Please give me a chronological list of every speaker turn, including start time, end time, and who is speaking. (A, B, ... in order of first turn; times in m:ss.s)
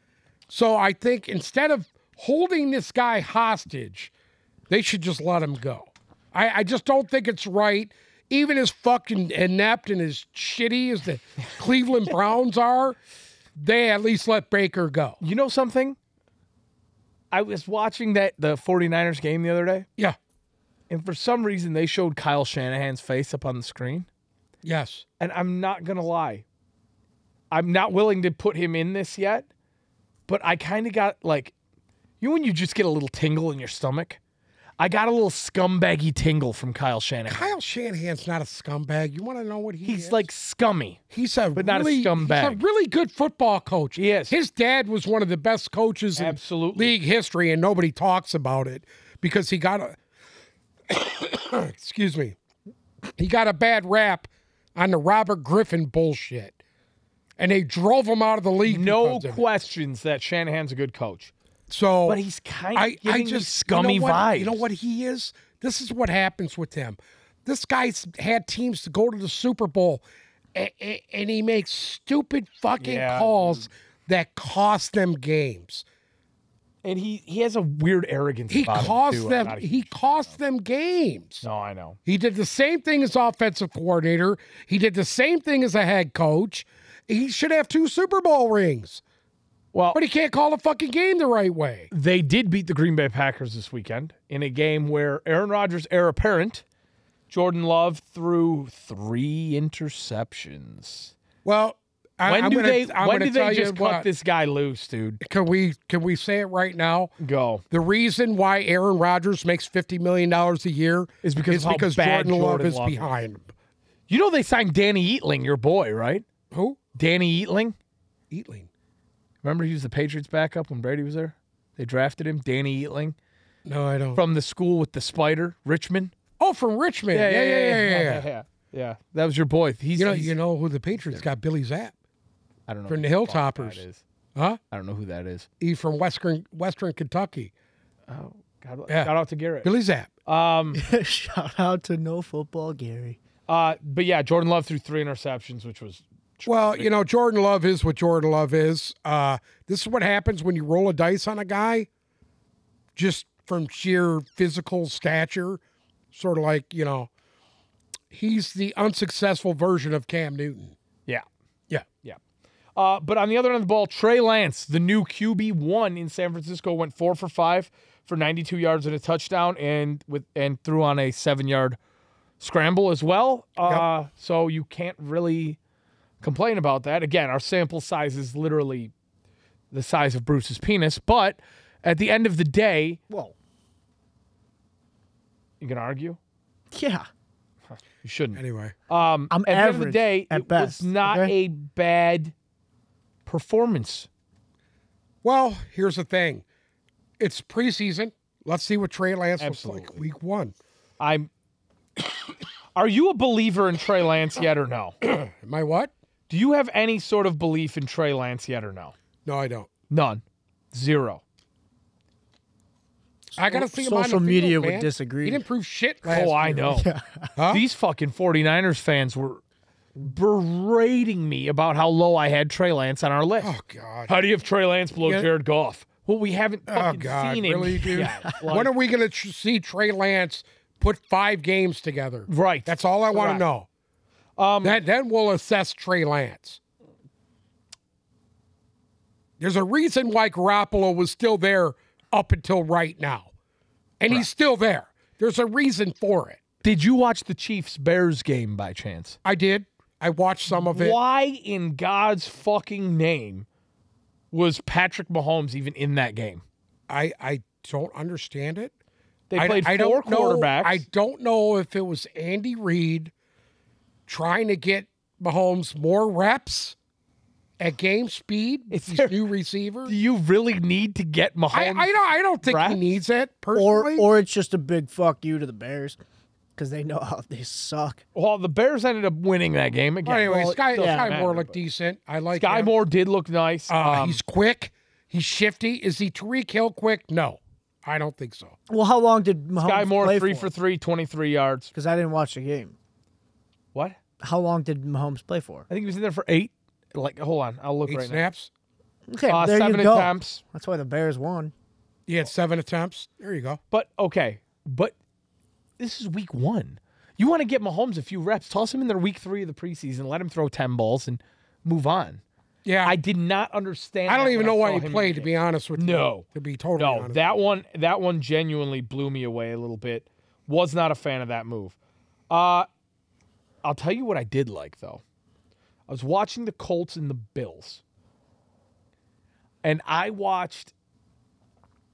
0:00.5-0:04.1 A
0:04.7-0:13.0 A
0:13.6-0:15.2 A
0:15.2-0:16.0 B
0:17.3-0:19.9 B
0:20.9-0:24.1 B
0:24.6-0:25.0 A
0:25.2-0:26.4 B
0:27.5-0:29.5 B
0:30.3-0:31.5 B
0:32.2-0:34.2 B
0:34.8-0:37.6 B
0:37.3-0:40.2 A
0:39.8-0:41.0 B
0:41.1-0:50.0 A
0:41.6-0:42.6 B
0:44.0-0:44.4 B
0:46.2-0:46.9 B
0:50.9-0:52.4 A
0:53.2-0:56.6 A
0:57.4-0:59.4 A
0:58.7-1:01.3 B
1:01.7-1:02.2 A
1:02.1-1:04.6 B
1:02.8-1:10.0 A
1:10.6-1:15.8 A
1:12.8-1:13.7 B
1:16.8-1:20.3 B
1:18.5-1:21.4 A
1:21.4-1:22.0 B
1:22.1-1:29.0 A
1:29.7-1:30.0 B
1:29.9-1:31.9 A
1:31.9-1:36.6 B
1:37.3-1:41.1 B
1:41.4-1:44.1 A
1:42.3-1:45.2 B
1:45.2-1:47.1 A
1:47.2-1:47.6 B
1:47.7-1:53.5 A
1:51.2-1:53.1 B
1:54.1-1:56.2 B
1:56.5-1:56.8 A
1:57.0-1:57.8 B
1:58.3-1:58.7 A
1:59.4-2:03.2 B
2:03.7-2:04.2 A
2:04.2-2:06.1 B
2:06.4-2:08.3 A
2:07.1-2:10.3 B
2:10.0-2:11.9 A
2:11.0-2:11.2 B
2:12.7-2:14.0 B
2:12.9-2:13.8 A
2:14.7-2:15.5 B
2:15.6-2:17.5 A
2:18.1-2:19.7 B
2:19.6-2:20.1 A
2:20.3-2:20.8 B
2:20.7-2:23.2 C
2:23.5-2:26.9 B
2:26.5-2:31.9 A
2:33.0-2:35.6 A
2:36.1-2:37.1 A
2:38.1-2:40.8 A
2:42.8-2:51.8 B
2:52.4-2:55.6 B
2:56.2-2:58.9 B
2:59.7-3:03.0 B
3:03.1-3:03.4 C
3:05.6-3:06.2 B
3:06.7-3:07.1 C
3:08.0-3:12.3 B
3:08.4-3:08.8 A
3:09.3-3:11.3 C
3:13.3-3:14.1 B
3:15.2-3:16.4 A
3:17.2-3:20.5 A
3:19.4-3:20.0 B
3:21.0-3:21.3 B
3:22.8-3:25.0 B
3:25.0-3:25.9 A
3:26.3-3:28.9 B
3:29.2-3:29.7 A
3:29.9-3:31.2 B
3:33.4-3:36.8 A
3:33.4-3:35.4 C
3:36.0-3:36.9 B
3:36.7-3:37.3 C
3:37.4-3:37.6 A
3:37.5-3:39.4 B
3:40.0-3:43.5 B
3:43.4-3:44.1 A
3:44.1-3:48.7 B
3:46.7-3:53.7 A
3:52.3-3:53.4 B
3:54.4-3:54.8 B
3:54.6-3:56.6 A
3:59.4-4:03.3 A
4:04.0-4:06.4 A
4:06.6-4:09.2 B
4:09.2-4:11.0 A
4:10.5-4:13.5 B
4:14.3-4:16.4 B
4:16.9-4:18.7 A
4:19.3-4:20.8 B
4:19.4-4:23.1 A
4:24.1-4:26.8 A
4:27.6-4:30.0 A
4:28.7-4:29.2 B
4:29.9-4:31.9 B
4:31.5-4:34.1 A
4:32.4-4:32.8 B
4:33.6-4:36.0 C
4:36.6-4:38.0 C
4:38.2-4:41.6 B
4:40.0-4:42.7 A
4:40.3-4:41.1 C
4:42.3-4:44.2 B
4:43.7-4:48.5 A
4:48.7-4:50.5 C
4:49.6-4:51.7 B
4:51.7-4:52.8 C
4:54.2-4:55.7 C
4:55.7-4:58.2 B
4:57.9-4:58.5 A
4:59.1-5:01.5 C
4:59.3-5:00.4 B
5:02.1-5:03.6 A
5:03.7-5:04.9 B
5:05.8-5:12.2 B
5:12.6-5:13.0 A
5:12.8-5:16.2 B
5:14.1-5:17.2 A
5:16.8-5:21.8 B
5:22.3-5:22.7 B
5:23.6-5:25.0 B
5:25.9-5:27.8 B
5:29.6-5:30.7 B